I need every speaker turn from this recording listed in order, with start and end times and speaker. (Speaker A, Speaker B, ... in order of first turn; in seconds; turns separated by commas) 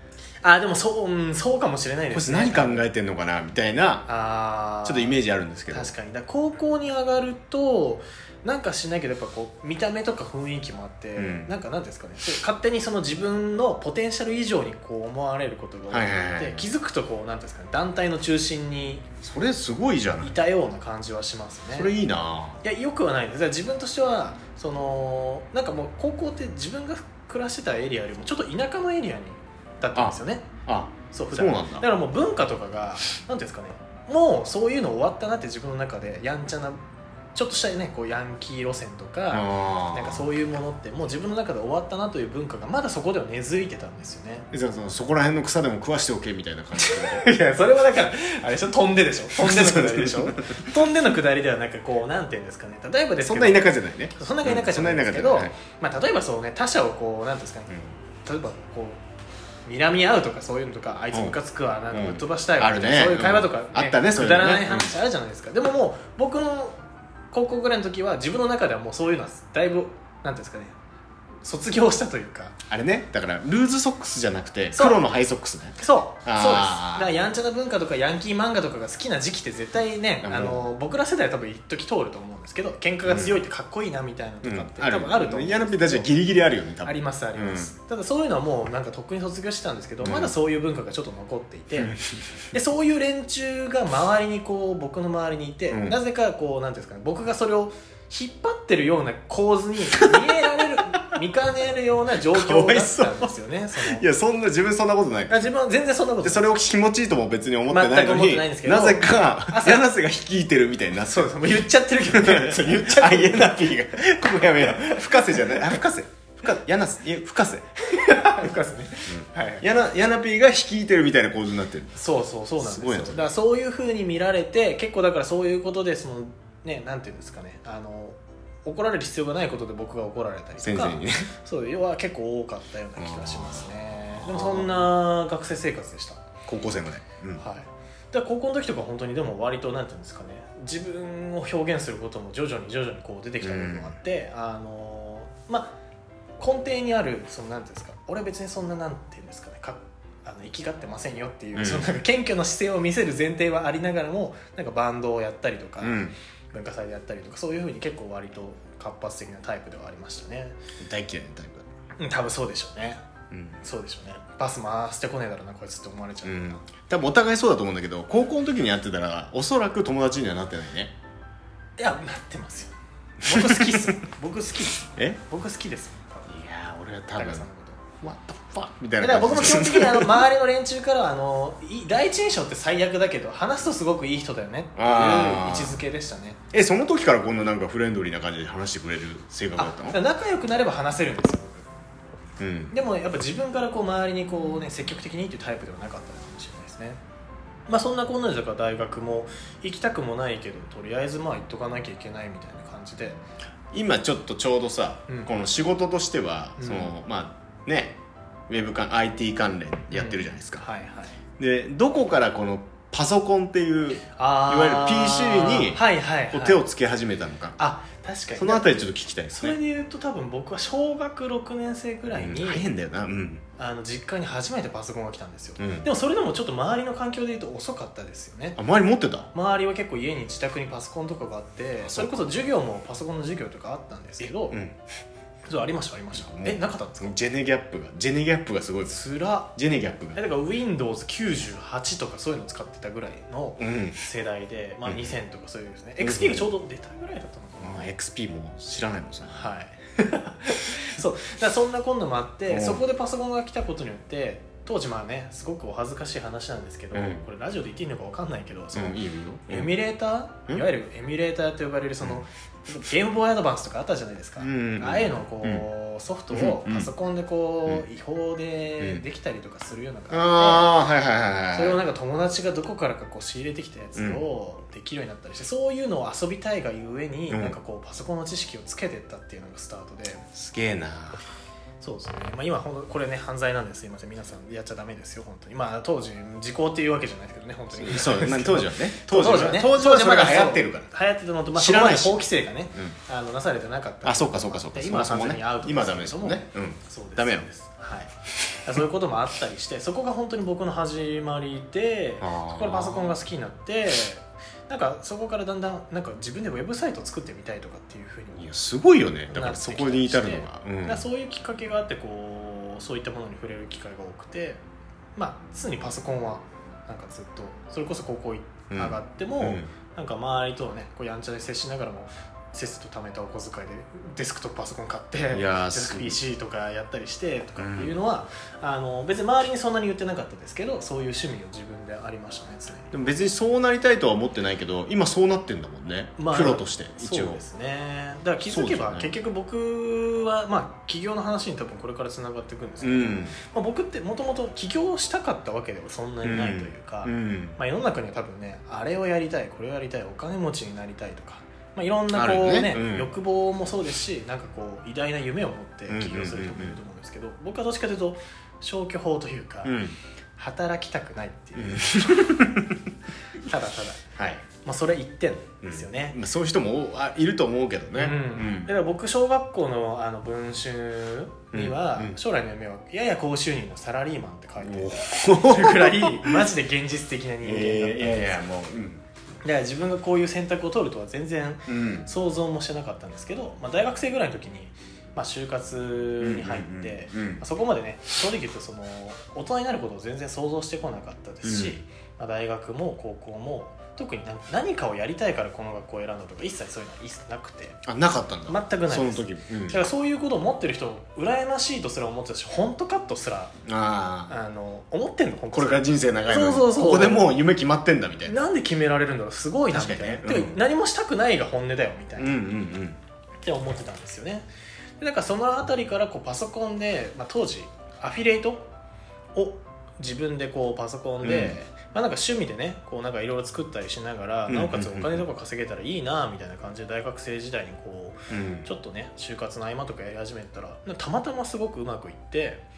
Speaker A: 0.4-2.9, Speaker B: 2.1-4.1, Speaker A: 4.1-5.2, Speaker B: 4.8-5.9, Speaker A: 5.7-19.1, Speaker B: 11.2-11.5, Speaker B: 15.9-16.7, Speaker B: 19.2-20.4, Speaker A: 20.2-21.9, Speaker B: 21.7-22.6, Speaker A: 22.6-30.5, Speaker B: 29.9-31.9, Speaker A: 31.1-36.8, Speaker A: 37.4-44.5, Speaker B: 39.3-40.3, Speaker B: 44.5-47.3, Speaker A: 46.8-59.0, Speaker B: 49.4-50.7, Speaker B: 53.2-55.5, Speaker A: 59.7-66.8, Speaker B: 61.9-64.9, Speaker A: 67.3-70.8, Speaker A: 71.4-72.6, Speaker B: 72.7-77.1, Speaker A: 74.7-75.0, Speaker A: 75.8-86.1, Speaker B: 80.2-80.7, Speaker B: 83.0-83.4, Speaker B: 84.4-87.7, Speaker A: 86.8-91.9, Speaker B: 90.0-90.3, Speaker B: 91.8-92.3, Speaker A: 92.5-104.0, Speaker B: 95.7-96.0, Speaker B: 100.0-100.4, Speaker B: 102.3-105.5, Speaker A: 105.3-106.5, Speaker B: 106.2-117.7, Speaker A: 107.7-109.9, Speaker A: 111.0-113.7, Speaker A: 114.6-115.8, Speaker A: 117.8-119.7, Speaker B: 119.1-122.0, Speaker A: 122.0-136.2, Speaker B: 122.6-123.3, Speaker B: 130.6-131.3, Speaker B: 133.0-134.8, Speaker B: 136.5-137.4, Speaker A: 137.4-145.8, Speaker B: 143.4-143.9, Speaker A: 146.4-160.6, Speaker B: 151.6-151.9, Speaker B: 155.8-156.2, Speaker B: 160.8-161.7, Speaker A: 162.0-163.0, Speaker B: 163.3-163.6, Speaker A: 163.6-166.7, Speaker B: 166.2-170.9, Speaker A: 171.8-176.3, Speaker B: 173.3-173.9, Speaker B: 176.3-177.5, Speaker A: 177.2-177.8, Speaker B: 178.0-180.2, Speaker A: 179.0-186.4, Speaker B: 184.8-185.8, Speaker B: 186.5-190.0, Speaker A: 189.6-191.7, Speaker B: 192.4-192.7, Speaker A: 192.7-197.0, Speaker A: 197.7-203.2, Speaker B: 203.7-208.0, Speaker A: 205.1-205.3, Speaker A: 206.6-206.9, Speaker B: 208.5-210.7, Speaker A: 209.9-211.2, Speaker B: 211.4-217.6, Speaker A: 214.2-216.6, Speaker A: 217.6-218.8, Speaker B: 218.4-219.6, Speaker A: 219.3-222.7, Speaker B: 222.1-223.4, Speaker A: 223.6-228.6, Speaker B: 225.6-225.9, Speaker B: 228.6-229.3, Speaker A: 229.3-234.6, Speaker B: 231.8-232.3, Speaker B: 234.5-234.8, Speaker A: 235.5-237.2, Speaker B: 236.1-239.0, Speaker A: 238.9-239.5, Speaker B: 239.6-240.2, Speaker A: 240.2-247.9, Speaker B: 243.6-244.0, Speaker B: 246.0-246.5, Speaker B: 247.6-249.5, Speaker A: 249.3-270.8, Speaker B: 252.5-252.8, Speaker B: 256.9-257.2, Speaker B: 258.7-259.7, Speaker B: 264.4-265.6, Speaker B: 266.3-266.9, Speaker B: 270.1-271.8, Speaker A: 271.5-280.3, Speaker B: 277.3-277.6, Speaker B: 280.3-281.2, Speaker A: 281.8-298.1, Speaker B: 287.7-290.9, Speaker B: 291.5-292.9, Speaker B: 294.0-297.5, Speaker A: 298.6-308.5, Speaker B: 302.2-303.1, Speaker B: 308.4-311.0, Speaker A: 309.3-314.6, Speaker A: 315.2-332.9, Speaker B: 318.7-319.7, Speaker B: 325.3-326.2, Speaker B: 327.6-328.0, Speaker B: 332.9-337.4, Speaker A: 336.2-359.8, Speaker B: 338.5-339.1, Speaker B: 342.8-343.4, Speaker B: 346.2-347.6, Speaker B: 352.1-353.1, Speaker B: 355.9-356.8, Speaker B: 359.6-360.0, Speaker A: 360.4-362.3, Speaker B: 361.6-362.8, Speaker A: 363.4-366.2, Speaker B: 364.2-364.4, Speaker B: 365.6-368.7, Speaker A: 367.9-378.4, Speaker B: 371.5-372.2, Speaker B: 374.6-376.4, Speaker B: 377.4-379.0, Speaker A: 379.4-397.8, Speaker B: 381.7-382.1, Speaker B: 386.2-387.4, Speaker B: 391.4-391.8, Speaker B: 397.9-399.8, Speaker A: 398.5-403.6, Speaker B: 403.7-404.4, Speaker A: 404.3-407.3, Speaker B: 405.5-408.4, Speaker A: 408.3-412.4, Speaker B: 409.7-410.6, Speaker B: 412.2-413.0, Speaker A: 413.4-414.5, Speaker A: 415.0-418.7, Speaker A: 419.4-432.6, Speaker B: 421.2-421.6, Speaker B: 424.5-425.2, Speaker B: 428.3-428.7